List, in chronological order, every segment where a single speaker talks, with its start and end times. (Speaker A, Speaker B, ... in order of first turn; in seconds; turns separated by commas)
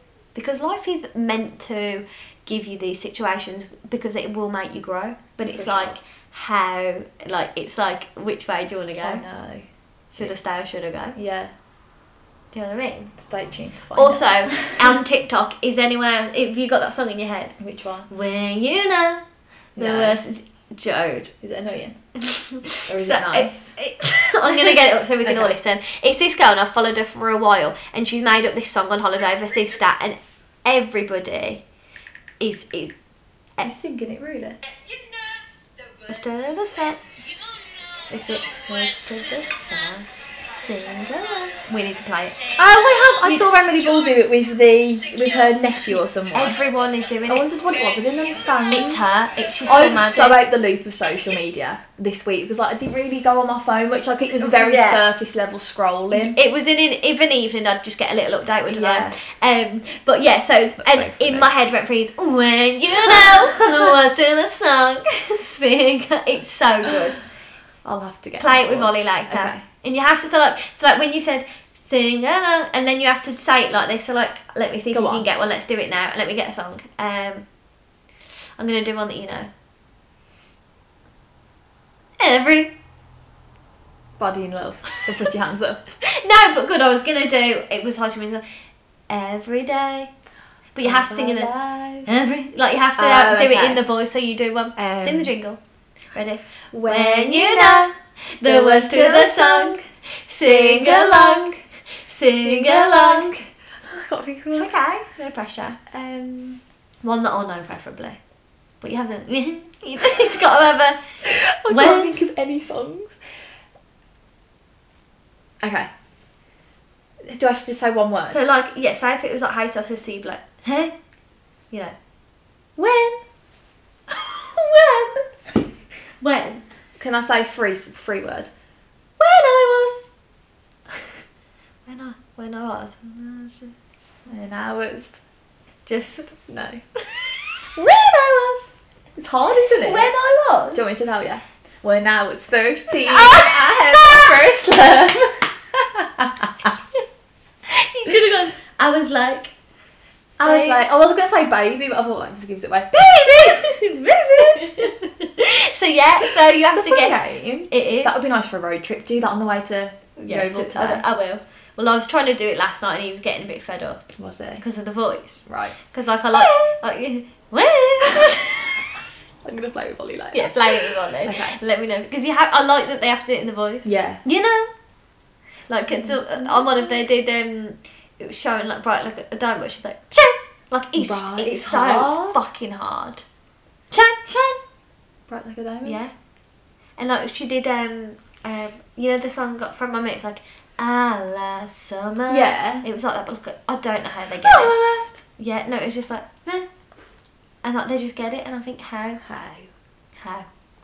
Speaker A: 0.3-9.2, Speaker B: 5.4-6.0, Speaker B: 9.0-9.7, Speaker A: 10.1-11.2, Speaker B: 11.2-11.5, Speaker A: 12.5-13.1, Speaker B: 13.2-15.0, Speaker A: 14.0-17.6, Speaker B: 17.6-18.1, Speaker A: 18.1-19.2, Speaker B: 19.8-20.2, Speaker A: 19.8-21.3, Speaker B: 21.4-22.0, Speaker A: 22.2-31.6, Speaker B: 22.9-23.8, Speaker B: 24.6-25.6, Speaker A: 32.4-32.9, Speaker B: 33.6-34.6, Speaker A: 36.0-37.0, Speaker A: 38.0-42.6, Speaker B: 42.5-46.6, Speaker A: 43.1-43.5, Speaker A: 46.3-47.5, Speaker B: 47.2-49.1, Speaker A: 48.7-50.4, Speaker B: 49.6-56.4, Speaker A: 54.4-55.0, Speaker A: 56.1-67.2, Speaker B: 58.7-59.2, Speaker B: 60.8-61.5, Speaker B: 63.0-64.0, Speaker B: 67.8-69.6, Speaker A: 68.4-77.5, Speaker B: 74.9-75.3, Speaker A: 78.6-79.5, Speaker A: 82.2-82.7, Speaker B: 84.2-85.8, Speaker A: 86.0-88.5, Speaker A: 89.1-90.1, Speaker A: 90.8-91.5, Speaker B: 90.8-92.1, Speaker A: 92.1-95.6, Speaker B: 93.0-93.8, Speaker B: 94.8-95.3, Speaker A: 96.1-103.3, Speaker B: 96.7-97.9, Speaker B: 98.4-99.8, Speaker B: 100.4-101.6, Speaker B: 102.4-104.7, Speaker A: 104.5-105.8, Speaker B: 105.9-106.6, Speaker A: 107.0-108.2, Speaker A: 108.8-111.0, Speaker B: 111.2-113.2, Speaker A: 111.7-112.1, Speaker B: 115.6-115.9, Speaker B: 117.2-118.4, Speaker A: 118.3-121.0, Speaker B: 122.8-123.2, Speaker A: 124.1-125.3, Speaker A: 126.2-126.6, Speaker B: 127.0-128.5, Speaker B: 129.2-130.1, Speaker A: 131.9-133.7, Speaker B: 134.3-135.2, Speaker A: 135.9-137.2, Speaker B: 137.8-140.1, Speaker A: 139.7-140.8, Speaker B: 140.7-146.7, Speaker A: 142.9-144.5, Speaker A: 146.7-147.0, Speaker A: 147.7-149.5, Speaker B: 150.4-153.7, Speaker A: 150.4-150.8, Speaker A: 152.9-158.2, Speaker B: 154.4-154.9, Speaker B: 156.2-161.1, Speaker A: 160.2-164.1, Speaker B: 164.2-164.6, Speaker A: 164.6-168.9, Speaker B: 165.5-165.8, Speaker B: 166.3-166.7, Speaker B: 168.0-168.3, Speaker B: 169.4-171.6, Speaker A: 170.3-174.7, Speaker B: 173.8-174.2, Speaker A: 175.7-183.2, Speaker B: 175.9-177.1, Speaker B: 181.0-182.4, Speaker B: 183.9-184.6, Speaker B: 185.3-186.0, Speaker A: 185.8-186.1, Speaker A: 187.0-194.8, Speaker B: 192.3-192.8, Speaker B: 194.4-195.2, Speaker A: 195.4-196.7, Speaker A: 197.6-199.2, Speaker B: 199.2-199.7, Speaker A: 200.2-200.5